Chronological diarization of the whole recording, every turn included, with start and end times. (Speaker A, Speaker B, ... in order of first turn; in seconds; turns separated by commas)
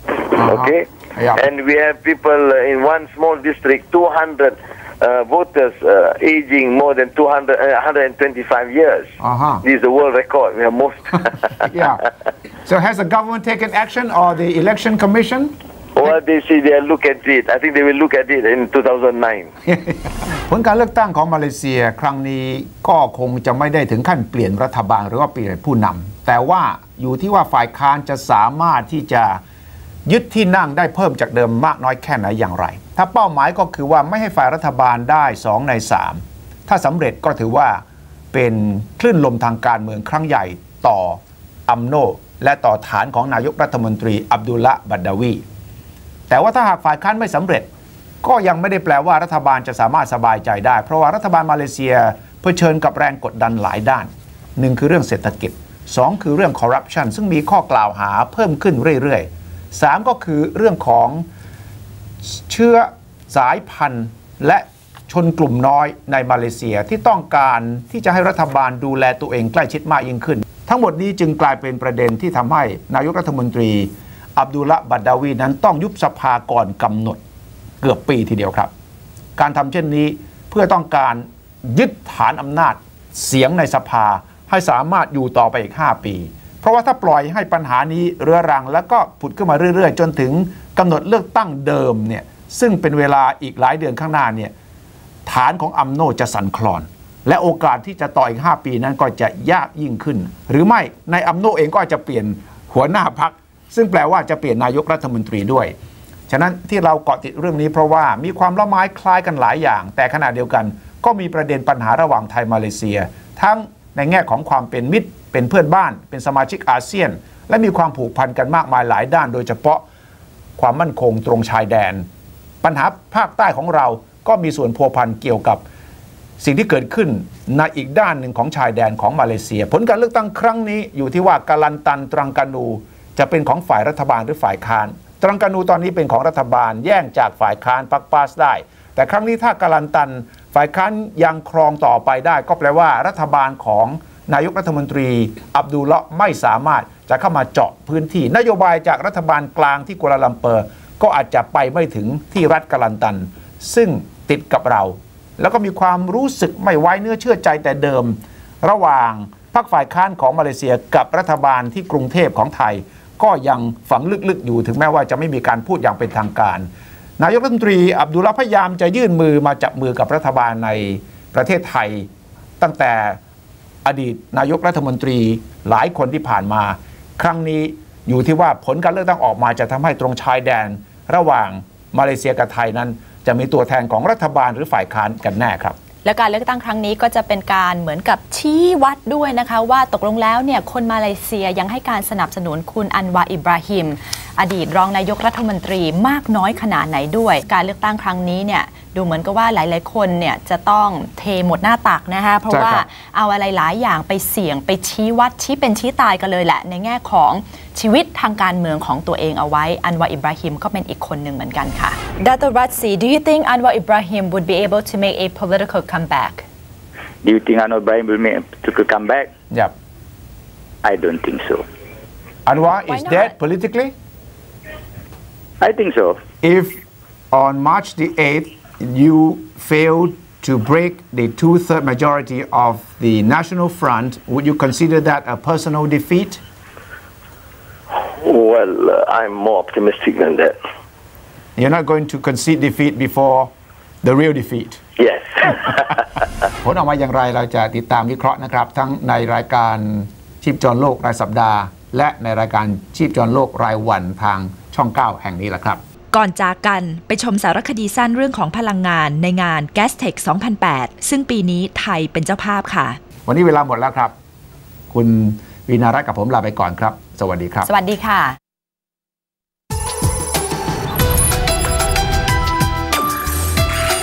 Speaker A: 0.3-11.7, Speaker B: 0.3-1.5, Speaker B: 9.2-9.6, Speaker B: 11.6-12.1, Speaker B: 12.7-15.5, Speaker A: 16.0-19.5, Speaker B: 19.7-29.4, Speaker B: 30.1-37.8, Speaker B: 38.3-45.4, Speaker B: 46.3-47.7, Speaker B: 48.2-61.3, Speaker B: 62.2-77.2, Speaker B: 77.8-78.7, Speaker B: 79.4-94.5, Speaker B: 95.3-105.7, Speaker B: 106.3-119.8, Speaker B: 120.6-122.1, Speaker B: 122.6-125.6, Speaker B: 126.4-166.7, Speaker B: 167.2-172.1, Speaker B: 172.6-173.2, Speaker B: 173.8-185.8, Speaker C: 186.0-216.4, Speaker B: 202.5-202.9, Speaker D: 217.2-219.3, Speaker D: 220.8-221.7, Speaker B: 222.5-223.9, Speaker C: 222.9-223.3, Speaker D: 225.6-226.2, Speaker B: 226.4-226.8, Speaker B: 227.3-236.4, Speaker A: 238.1-240.6, Speaker B: 241.6-243.5, Speaker B: 244.0-244.8, Speaker A: 245.0-245.9, Speaker B: 246.6-255.8, Speaker E: 256.1-262.9, Speaker B: 263.3-264.1, Speaker B: 264.9-267.7, Speaker C: 267.6-268.4